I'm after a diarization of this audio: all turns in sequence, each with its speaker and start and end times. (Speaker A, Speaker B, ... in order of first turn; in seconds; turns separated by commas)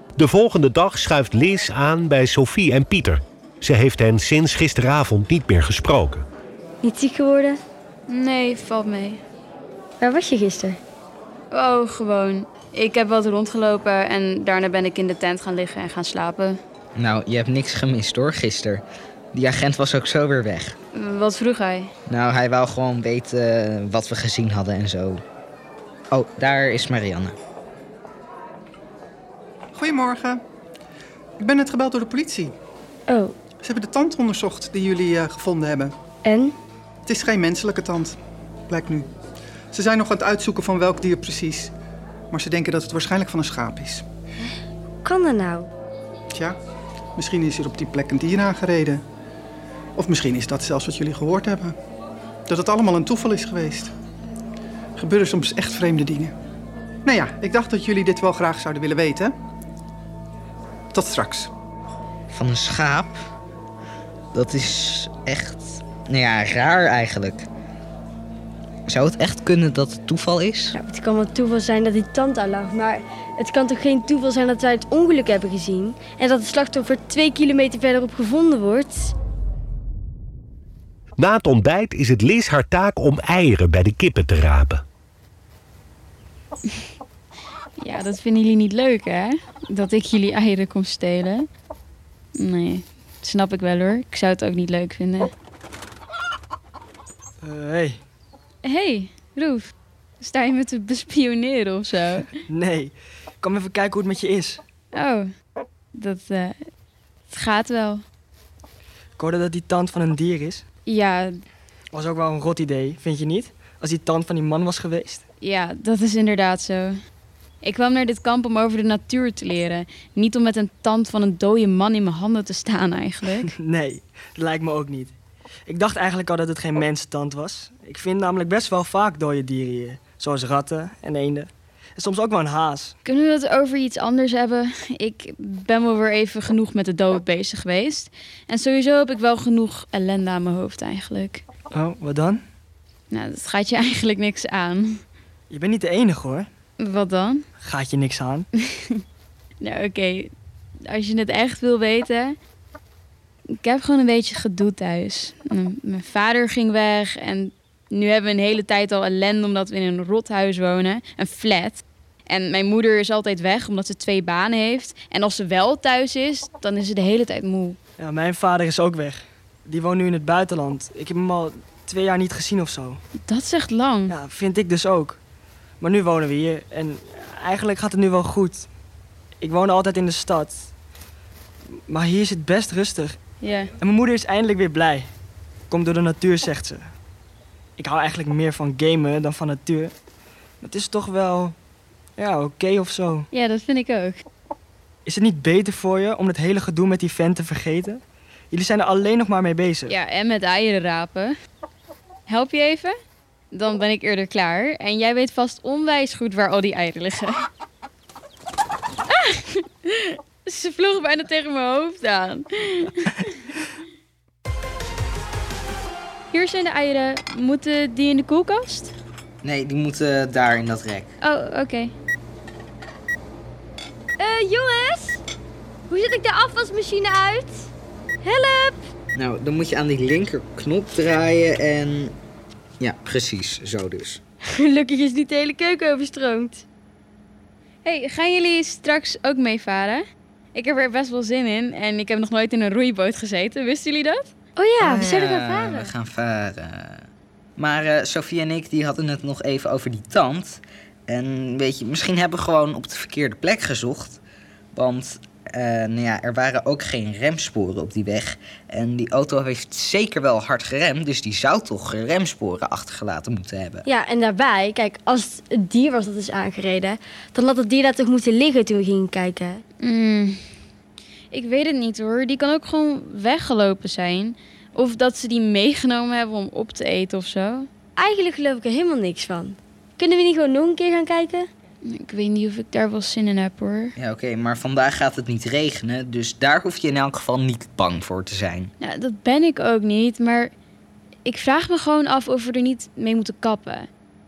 Speaker A: 0.2-6.2, Speaker B: 6.8-7.6, Speaker C: 8.1-9.2, Speaker B: 10.0-10.8, Speaker C: 11.5-16.6, Speaker D: 16.9-20.8, Speaker C: 20.9-21.9, Speaker D: 22.1-25.2, Speaker D: 26.1-27.4, Speaker E: 29.7-30.4, Speaker E: 31.4-32.5, Speaker B: 33.1-33.3, Speaker E: 33.6-35.9, Speaker B: 36.2-36.5, Speaker E: 37.1-38.2, Speaker E: 38.7-39.1, Speaker E: 39.7-41.7, Speaker E: 42.3-44.0, Speaker B: 45.0-45.7, Speaker E: 47.2-49.0, Speaker E: 50.0-51.7, Speaker E: 52.5-53.9, Speaker E: 55.0-56.3, Speaker E: 57.0-59.3, Speaker E: 60.9-61.5, Speaker D: 62.3-63.2, Speaker D: 64.3-67.5, Speaker D: 68.9-70.8, Speaker B: 70.8-79.1, Speaker A: 81.2-84.8, Speaker C: 87.8-91.5, Speaker C: 92.3-95.3, Speaker F: 97.4-98.0, Speaker C: 98.6-102.3, Speaker F: 102.5-104.6, Speaker C: 104.9-105.3, Speaker C: 105.9-106.7, Speaker C: 107.3-108.0, Speaker F: 109.2-110.6, Speaker C: 110.9-111.4, Speaker F: 111.9-115.2, Speaker C: 115.4-117.0, Speaker C: 117.6-123.5, Speaker F: 123.5-125.1, Speaker F: 125.7-132.9, Speaker C: 133.0-141.4, Speaker F: 141.7-142.4, Speaker C: 143.1-145.0, Speaker F: 145.5-146.5, Speaker C: 146.8-147.4, Speaker F: 147.6-148.5, Speaker C: 148.7-149.0, Speaker C: 149.6-150.3, Speaker C: 150.9-152.4, Speaker C: 153.6-167.8, Speaker F: 168.0-173.0, Speaker C: 173.2-174.1, Speaker F: 174.1-175.2, Speaker F: 175.8-178.7, Speaker F: 179.4-180.7, Speaker F: 181.9-183.2, Speaker C: 183.4-183.7, Speaker F: 183.8-185.1, Speaker F: 185.7-186.9, Speaker F: 187.8-189.9, Speaker F: 190.6-191.6, Speaker F: 192.2-193.3, Speaker C: 193.3-194.2, Speaker F: 195.1-198.0, Speaker F: 198.5-199.9, Speaker C: 199.9-201.3, Speaker C: 202.3-202.9, Speaker C: 203.5-207.4, Speaker C: 209.1-213.2, Speaker C: 216.3-218.9, Speaker D: 219.4-221.1, Speaker C: 221.2-221.9, Speaker B: 224.2-225.2, Speaker B: 225.9-227.7, Speaker B: 228.2-228.8, Speaker D: 229.1-232.2, Speaker D: 232.8-234.2, Speaker B: 234.5-236.6, Speaker C: 237.8-240.0, Speaker C: 240.5-244.3, Speaker B: 244.6-245.9, Speaker D: 244.8-254.2, Speaker D: 254.7-263.8, Speaker B: 263.9-269.6, Speaker C: 269.8-270.4, Speaker C: 271.3-277.7, Speaker B: 278.0-281.5, Speaker C: 281.9-283.9, Speaker D: 284.0-288.7, Speaker C: 288.8-290.5, Speaker C: 291.2-293.9